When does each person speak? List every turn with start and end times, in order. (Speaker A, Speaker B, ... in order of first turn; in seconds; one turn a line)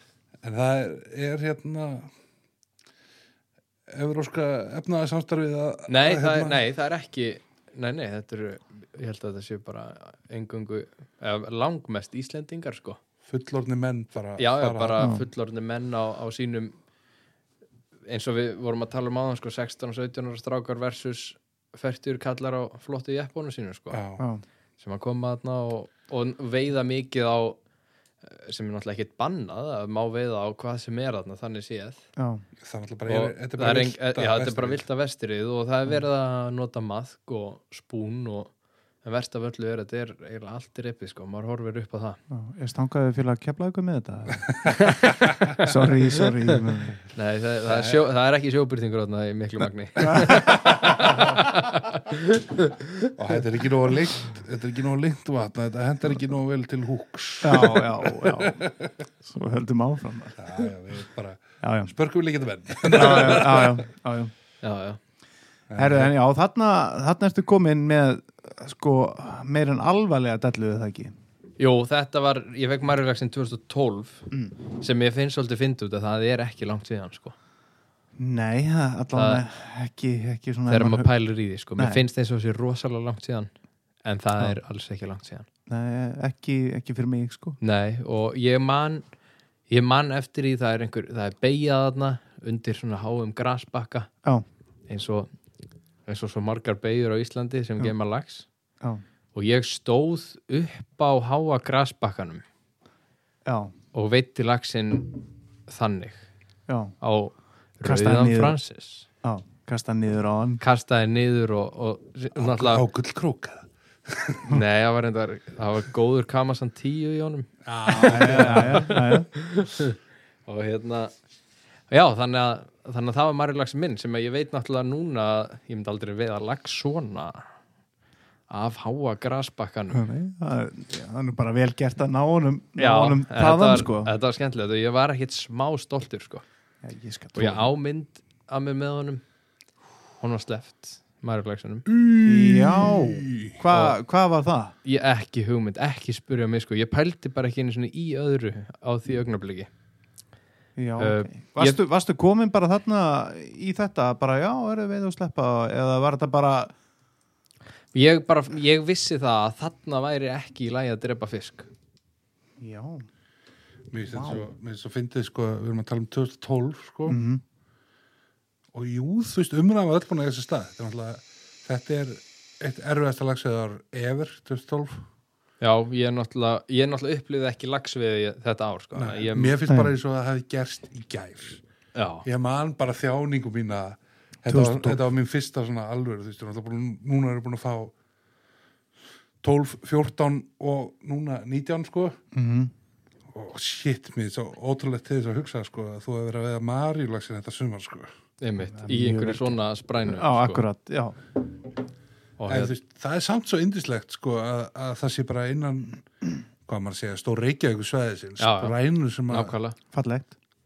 Speaker A: 0.4-2.1
Speaker A: 3.9-6.6
Speaker B: 5.9-13.0
Speaker A: 13.2-15.1
Speaker B: 14.4-16.7
Speaker C: 15.0-15.2
Speaker B: 18.1-24.0
Speaker A: 23.9-24.2
Speaker B: 24.8-27.6
Speaker B: 28.2-32.0
Speaker C: 32.2-32.4
Speaker A: 32.6-34.8
Speaker B: 33.1-38.5
Speaker B: 39.0-42.2
Speaker C: 42.3-44.5
Speaker B: 44.7-45.3
Speaker C: 45.6-47.0
Speaker B: 47.1-53.1
Speaker A: 47.6-48.0
Speaker A: 50.1-51.4
Speaker A: 53.1-58.9
Speaker C: 57.4-58.6
Speaker C: 59.2-60.6
Speaker A: 60.4-63.8
Speaker C: 61.6-61.9
Speaker C: 62.9-64.3
Speaker B: 63.0-63.5
Speaker B: 64.6-65.0
Speaker A: 65.7-66.2
Speaker C: 65.8-71.1
Speaker B: 71.6-77.3
Speaker C: 78.2-81.1
Speaker B: 79.1-79.4
Speaker B: 80.7-83.5
Speaker C: 81.8-82.0
Speaker B: 84.0-85.5
Speaker C: 85.7-87.6
Speaker B: 87.6-89.0
Speaker B: 89.7-94.1
Speaker B: 94.9-95.3
Speaker B: 96.1-98.5
Speaker B: 99.3-102.4
Speaker C: 103.5-103.7
Speaker B: 103.9-106.2
Speaker C: 106.7-106.9
Speaker B: 107.0-109.0
Speaker C: 107.8-108.6
Speaker C: 109.2-110.6
Speaker B: 110.6-112.8
Speaker A: 112.3-114.5
Speaker B: 114.5-121.1
Speaker A: 117.6-119.0
Speaker C: 117.9-119.3
Speaker B: 121.9-127.4
Speaker B: 128.5-130.0
Speaker C: 129.9-134.1
Speaker B: 132.8-136.4
Speaker C: 136.8-137.7
Speaker B: 137.3-139.2
Speaker B: 140.2-141.8
Speaker A: 141.9-143.6
Speaker C: 142.2-144.7
Speaker B: 143.7-143.9
Speaker B: 144.8-149.7
Speaker C: 150.8-156.7
Speaker B: 151.0-151.8
Speaker B: 157.9-161.7
Speaker C: 162.6-163.1
Speaker A: 163.9-167.2
Speaker C: 164.1-164.4
Speaker C: 167.1-167.4
Speaker A: 168.7-175.0
Speaker B: 175.6-179.6
Speaker A: 178.9-181.6
Speaker C: 179.7-179.9
Speaker B: 181.9-182.2
Speaker A: 182.2-187.9
Speaker C: 184.5-185.0
Speaker A: 189.4-192.2
Speaker C: 192.3-192.7
Speaker A: 193.3-198.1
Speaker B: 198.4-200.6
Speaker C: 198.6-201.2
Speaker B: 202.4-202.7
Speaker A: 202.5-206.1
Speaker A: 206.6-209.5
Speaker B: 208.4-208.8
Speaker B: 209.3-209.8
Speaker C: 209.9-210.3